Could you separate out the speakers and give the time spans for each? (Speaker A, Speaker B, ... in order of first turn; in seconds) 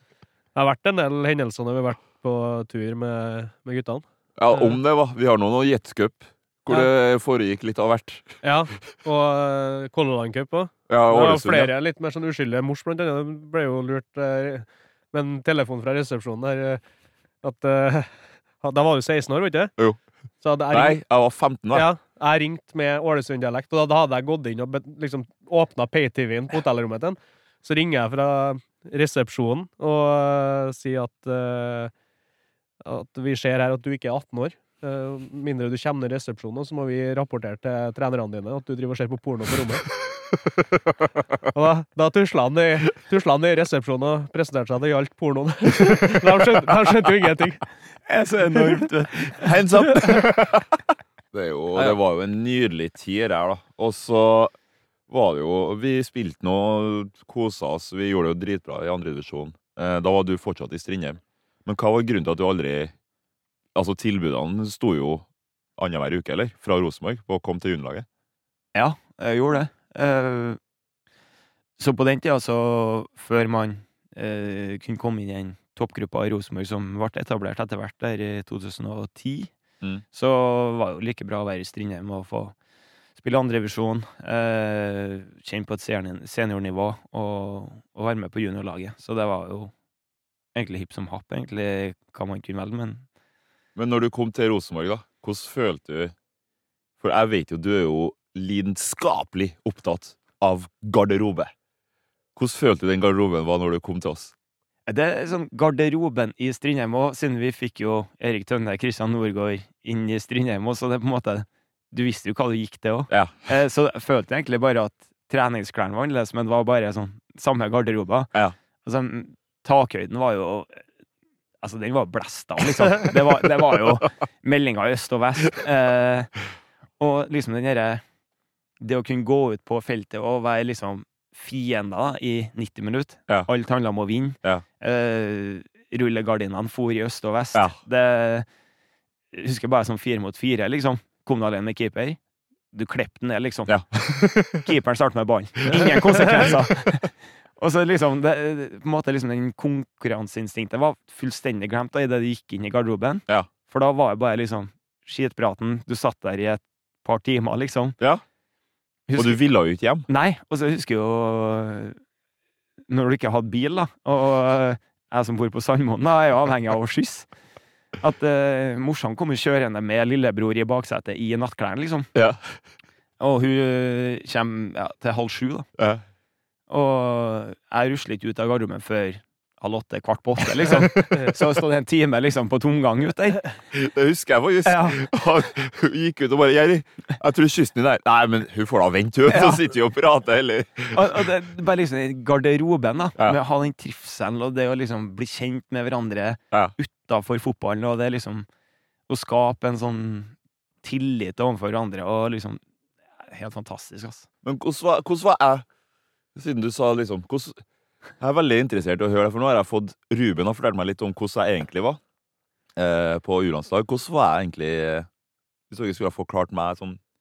Speaker A: 0.6-4.8, 8.4-16.8, 17.4-19.7, 20.4-21.0, 21.7-31.9, 32.8-39.9, 41.5-47.6
Speaker B: 4.4-8.3, 10.9-11.7, 20.7-21.9, 49.2-50.8, 51.3-54.5, 55.1-62.9, 63.8-65.3, 65.8-68.1, 93.8-96.1, 97.0-101.5, 102.4-104.3, 113.1-113.5, 143.7-144.6, 145.7-146.5, 159.2-160.1, 172.1-172.6, 175.8-176.0, 180.6-181.4, 183.7-191.3, 204.4-205.7, 206.3-207.6, 208.2-212.0, 212.8-215.1, 215.7-217.0
Speaker C: 48.1-49.5, 68.7-70.6, 71.8-79.5, 80.1-82.5, 83.2-89.7, 90.5-93.0, 104.9-118.3, 118.8-120.8, 121.6-126.3, 127.0-128.0, 128.8-138.5, 139.3-142.2, 142.7-158.0, 159.1-159.4, 160.1-162.0, 162.9-167.3, 168.0-172.1, 173.2-175.7, 176.7-183.5, 184.7-185.0, 189.3-189.6, 190.9-198.5, 199.1-202.6, 203.3-204.3